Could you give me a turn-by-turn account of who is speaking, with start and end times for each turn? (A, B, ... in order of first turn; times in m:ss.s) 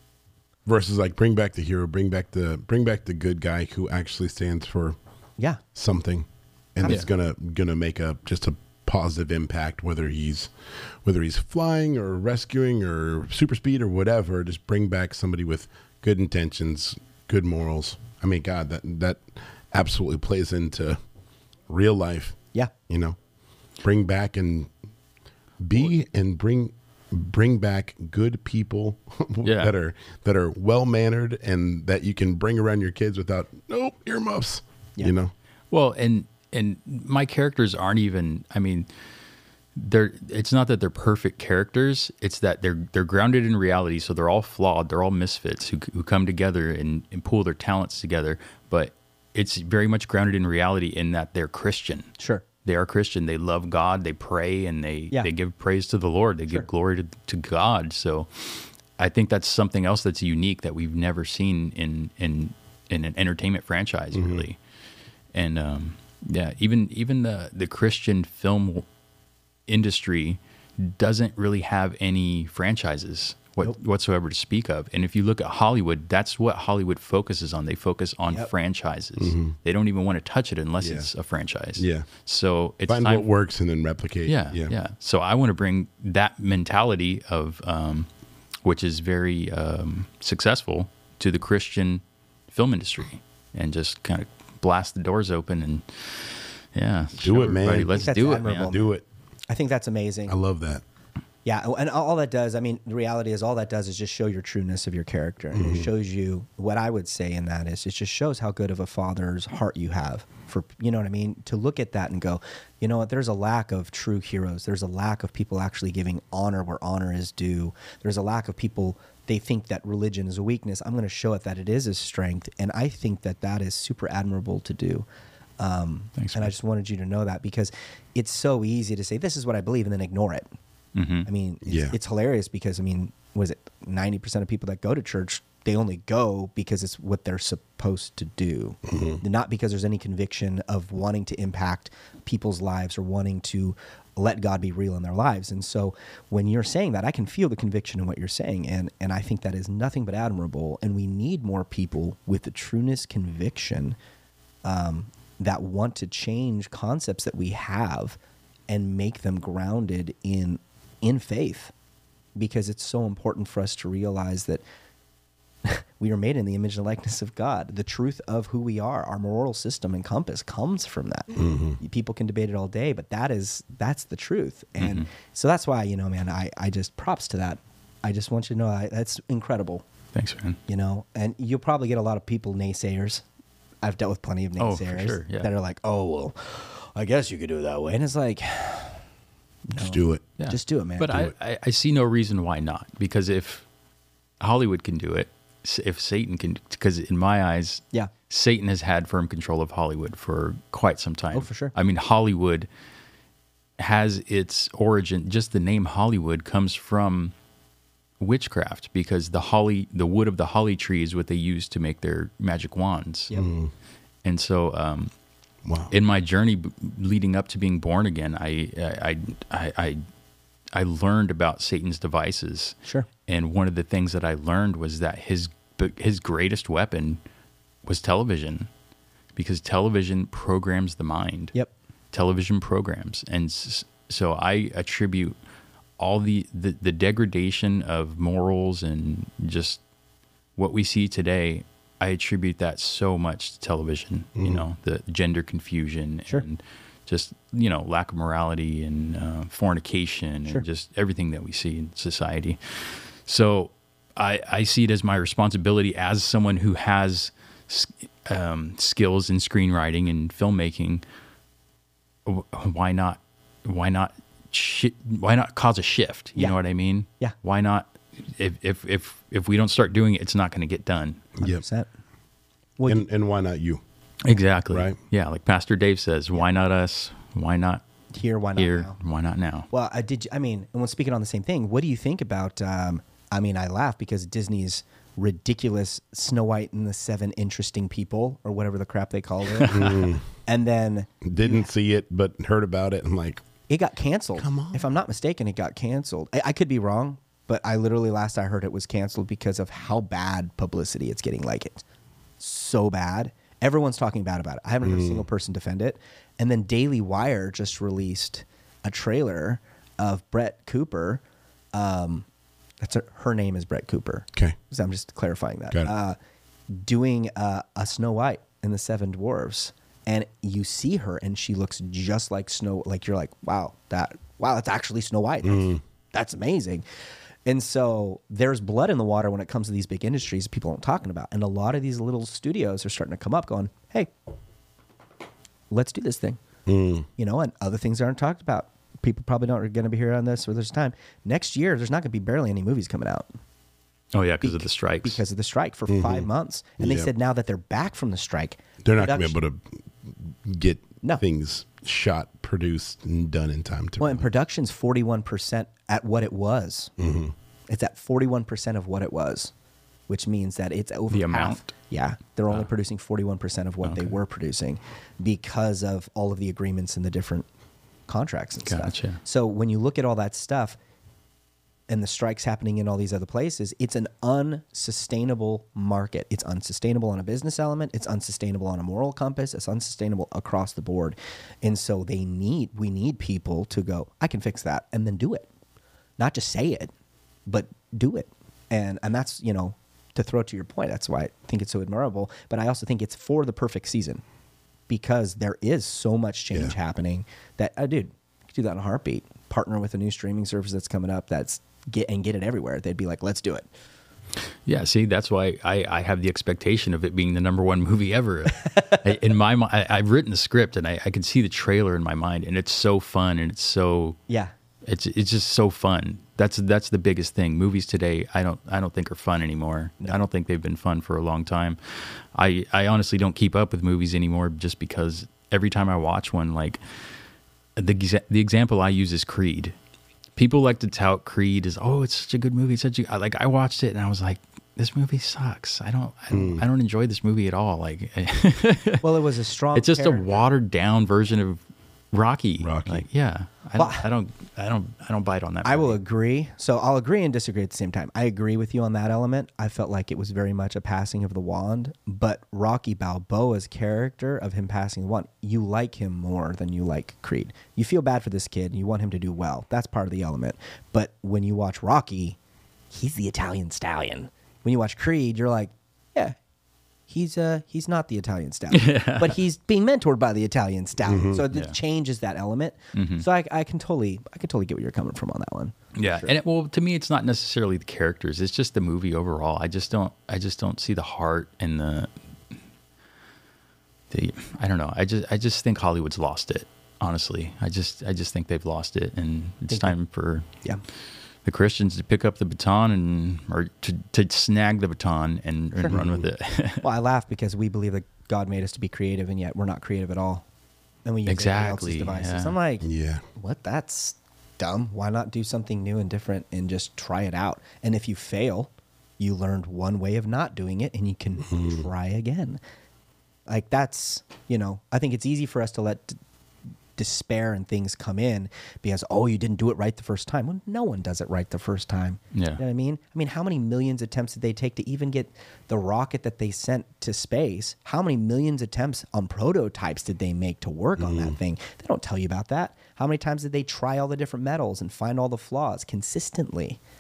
0:00.7-0:05.0 A
0:05.8-0:10.5 A
0:11.0-0:21.0 A
0:21.7-0:23.2 A
0:23.8-0:24.7 A
0:25.6-0:35.3 A
0:29.4-0:29.7 B
0:35.7-0:38.9 B
0:39.8-0:52.1 B
0:52.2-0:52.4 C
0:52.6-1:04.6 B
1:04.1-1:04.4 A
1:05.3-1:08.9 B
1:09.7-1:23.3 B
1:19.2-1:19.5 A
1:20.8-1:21.1 A
1:21.8-1:22.1 A
1:22.9-1:24.8 A
1:24.3-1:28.1 B
1:28.6-1:38.7 B
1:37.2-1:39.0 A
1:38.0-1:38.9 C
1:39.5-1:40.4 C
1:40.3-1:40.8 A
1:41.4-2:05.0 C
1:45.5-1:45.9 A
2:05.6-2:10.5 C
2:06.2-2:06.5 B
2:11.0-2:11.3 B
2:11.3-2:34.0 C
2:11.7-2:12.0 A
2:18.9-2:19.2 A
2:34.6-2:38.2 C
2:38.7-2:41.7 C
2:42.4-2:44.6 C
2:45.6-2:59.8 C
2:51.4-2:51.8 A
2:54.8-2:55.1 B
3:00.1-3:00.6 B
3:00.7-3:03.2 C
3:03.8-3:09.0 C
3:04.6-3:05.5 B
3:09.7-3:11.2 C
3:09.8-3:10.2 A
3:10.4-3:13.7 B
3:14.4-3:22.7 B
3:21.3-3:21.7 C
3:23.8-3:27.3 B
3:28.2-3:33.4 B
3:33.3-3:33.7 A
3:34.2-3:35.1 B
3:35.6-3:35.9 A
3:35.9-3:40.0 B
3:40.7-3:47.2 B
3:47.9-3:48.7 B
3:49.4-3:51.5 B
3:52.1-3:55.4 B
3:56.0-3:59.8 B
4:00.6-4:21.0 B
4:04.4-4:04.6 A
4:22.3-4:31.3 B
4:31.4-4:31.6 A
4:31.4-4:31.9 C
4:32.8-4:33.0 C
4:32.8-4:33.8 A
4:34.2-4:37.8 B
4:34.7-4:35.0 A
4:38.1-4:39.0 C
4:38.6-4:39.7 B
4:39.7-4:51.7 C
4:49.6-4:50.0 B
4:49.7-4:50.2 A
4:51.2-4:53.4 A
4:53.7-5:01.8 C
4:54.4-4:54.8 A
5:02.4-5:11.2 C
5:04.8-5:05.3 A
5:11.7-5:12.3 C
5:12.8-5:16.2 C
5:16.7-5:26.8 C
5:25.4-5:25.8 A
5:27.4-5:34.1 C
5:35.7-5:36.4 C
5:36.7-5:37.1 A
5:37.2-5:43.3 C
5:44.1-5:45.2 B
5:44.4-5:49.4 C
5:45.9-5:46.3 A
5:46.8-5:47.1 A
5:48.8-5:54.3 A
5:54.0-5:56.9 C
5:57.0-5:57.3 A
5:57.7-5:59.5 C
6:00.1-6:07.5 C
6:01.1-6:01.7 B
6:03.8-6:04.1 B
6:08.1-6:10.8 C
6:08.6-6:09.2 B
6:11.9-6:25.5 C
6:26.2-6:26.9 C
6:27.5-6:34.2 C
6:34.9-6:43.7 C
6:44.7-6:54.2 B
6:54.9-7:06.8 B
7:07.8-7:09.7 B
7:10.4-7:19.1 B
7:16.3-7:16.6 A
7:19.0-7:20.4 C
7:19.7-7:21.6 B
7:22.1-7:26.0 B
7:22.6-7:23.0 A
7:23.8-7:24.0 C
7:25.6-7:42.4 C
7:42.9-7:46.4 C
7:47.1-7:56.3 C
7:48.7-7:49.4 B
7:51.1-7:51.4 A
7:51.5-7:51.8 B
7:52.9-7:53.2 B
7:56.0-8:02.1 B
8:04.1-8:10.5 B
8:09.7-8:09.9 C
8:11.4-8:16.9 B
8:15.9-8:16.2 A
8:16.8-8:20.4 C
8:21.0-8:32.6 C
8:21.3-8:22.6 B
8:22.8-8:23.2 A
8:31.5-8:31.8 A
8:33.5-8:36.2 C
8:37.0-8:56.8 C
8:42.3-8:42.6 B
8:51.0-8:51.4 A